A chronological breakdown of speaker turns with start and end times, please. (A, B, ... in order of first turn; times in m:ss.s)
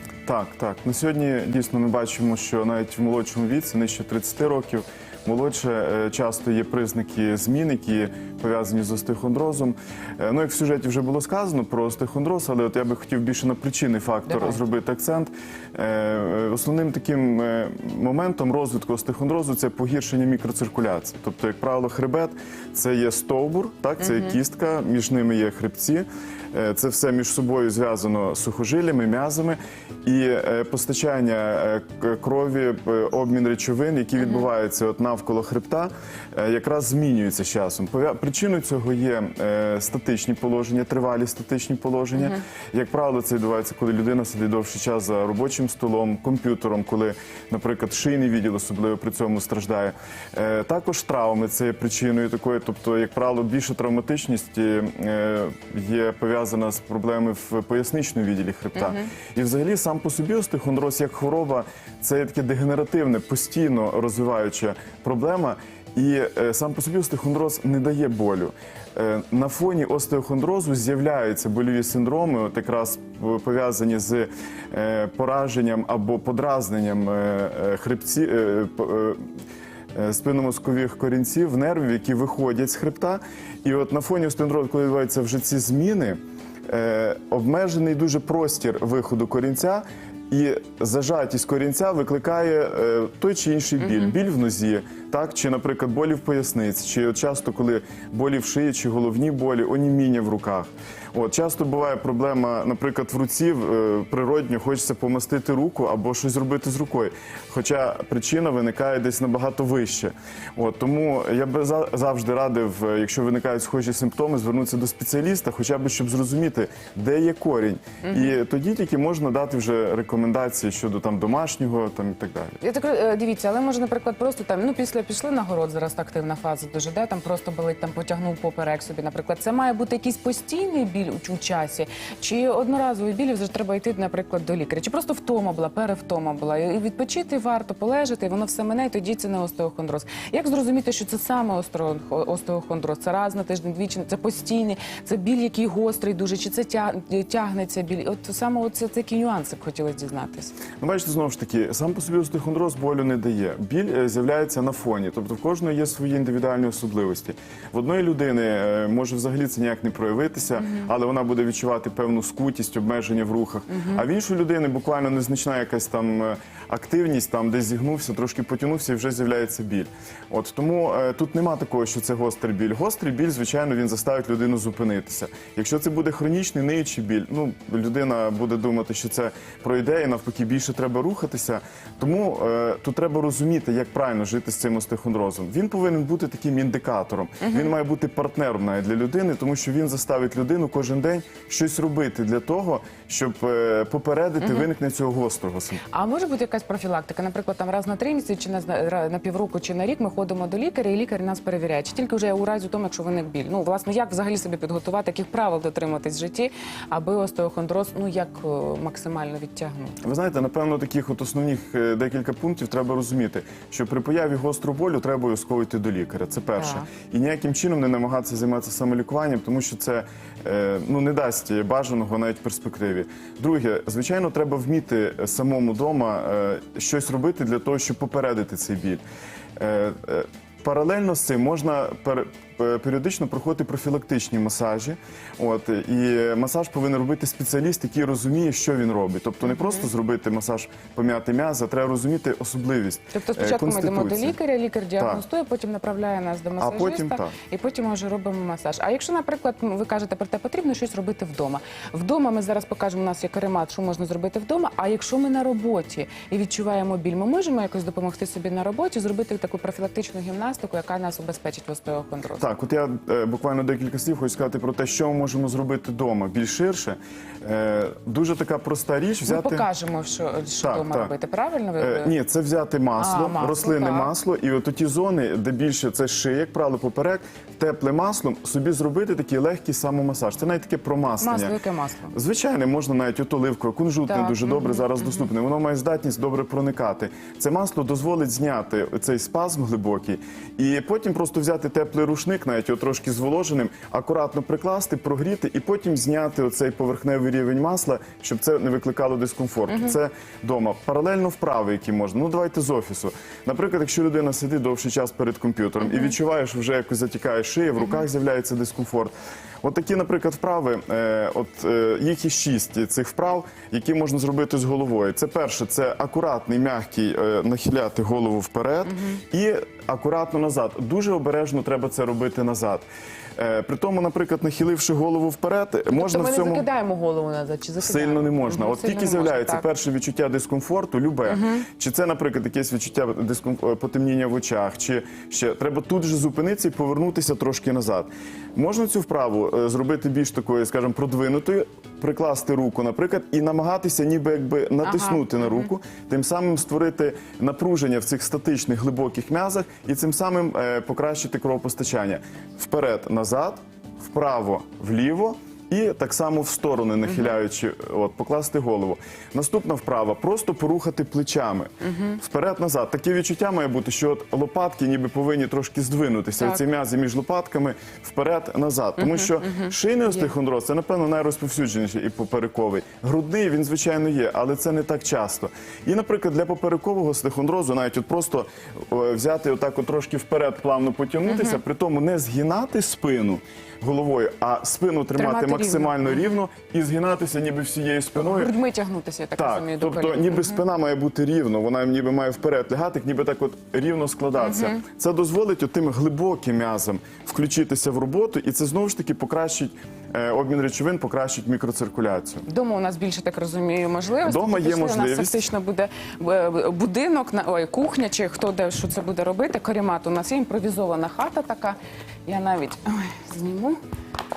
0:00.3-1:19.2 A
0:14.3-0:14.6 B
0:24.0-0:24.4 B
0:58.8-0:59.1 B
1:19.9-2:02.6 A
1:33.8-1:34.2 B
1:58.0-1:58.3 B
2:02.6-2:30.5 B
2:30.8-3:15.8 A
3:07.4-3:07.7 B
3:14.4-3:14.7 B
3:15.9-3:30.0 B
3:30.0-3:49.0 A
3:36.6-3:36.9 B
3:49.6-4:04.4 A
3:59.5-3:59.8 B
4:03.1-4:22.5 B
4:05.0-4:05.2 A
4:06.6-4:07.4 A
4:22.4-4:29.7 A
4:29.3-4:32.1 B
4:30.6-4:31.1 A
4:31.8-4:41.6 A
4:33.0-4:34.1 B
4:41.2-4:42.2 B
4:42.1-5:26.7 A
4:44.1-4:45.3 B
4:59.7-5:00.0 B
5:05.8-5:06.1 B
5:18.9-5:19.2 B
5:25.9-5:29.7 B
5:27.8-6:28.5 A
5:31.3-5:31.6 B
5:44.8-5:45.3 B
5:57.1-5:57.3 B
6:01.9-6:02.2 B
6:09.0-6:10.3 B
6:21.3-6:21.6 B
6:25.2-6:26.2 B
6:28.2-6:30.6 B
6:29.4-6:42.4 A
6:34.4-6:34.8 B
6:42.5-6:53.8 B
6:44.2-6:45.5 A